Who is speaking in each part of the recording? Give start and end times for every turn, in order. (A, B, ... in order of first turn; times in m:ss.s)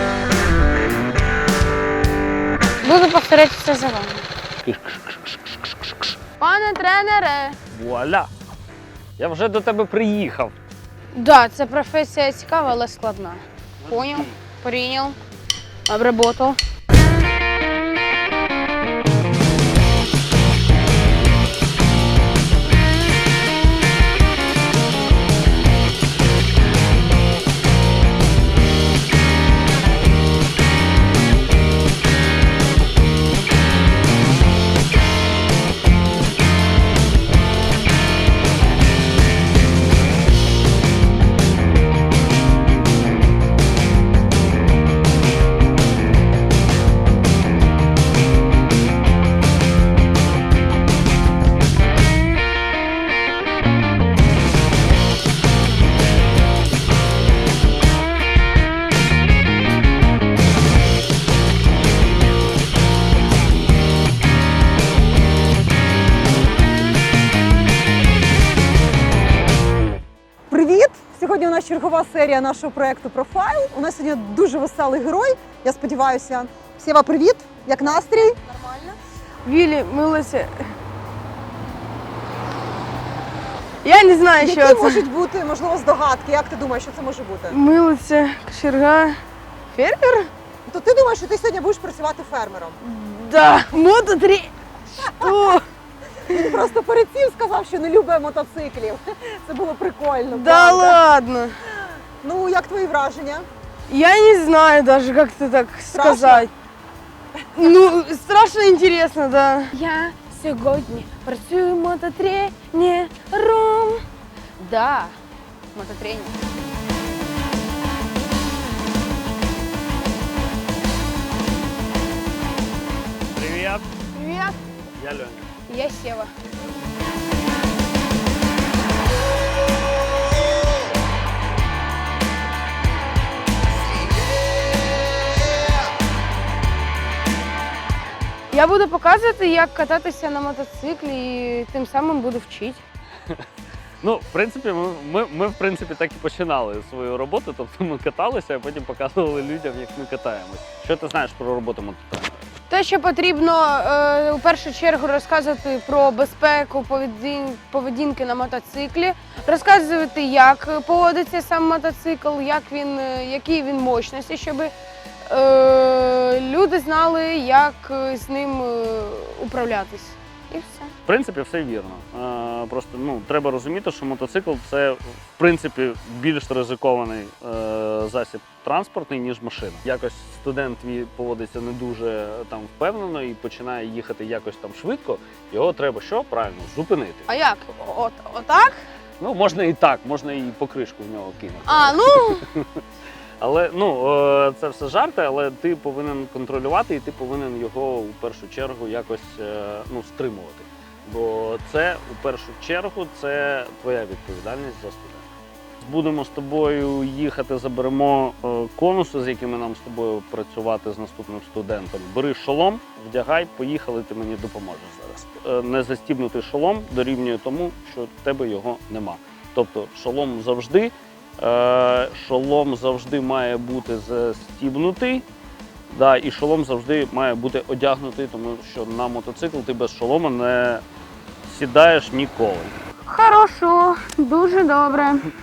0:02.8-0:04.3 A
0:04.6-0:06.1 B
0:06.4-0:07.6 A
0:07.7-0:08.3 B
0:09.2-0:10.6 B
0:11.1-0:15.2 A
0:13.8-0:14.4 B
0:15.9-0:16.6 A
1:10.5-1:18.9 C
1:19.4-1:20.7 A
1:23.8-1:25.1 A
1:24.4-1:27.6 C
1:27.5-1:29.2 A
1:29.7-1:30.3 A
1:30.7-1:32.8 C
1:32.8-1:35.6 A
1:36.3-1:41.0 C
1:40.3-1:41.6 A
1:42.2-1:43.5 C
1:43.9-1:46.5 A
1:45.9-1:46.5 C
1:47.5-1:54.0 A
1:54.6-1:55.2 A
1:55.7-1:56.4 A
2:03.3-2:03.9 B
2:04.1-2:04.6 A
2:05.0-2:05.5 B
2:05.7-2:06.3 A
2:18.5-2:22.8 A
2:24.0-2:32.4 B
2:32.7-2:44.7 A
2:45.2-2:50.9 A
2:51.1-3:07.3 B
3:07.3-3:08.8 A
3:09.2-3:12.8 B
3:11.6-3:12.5 A
3:13.4-3:25.3 B
3:25.8-3:45.2 B
3:45.9-3:50.8 B
3:51.5-3:52.8 B
3:53.0-3:55.3 A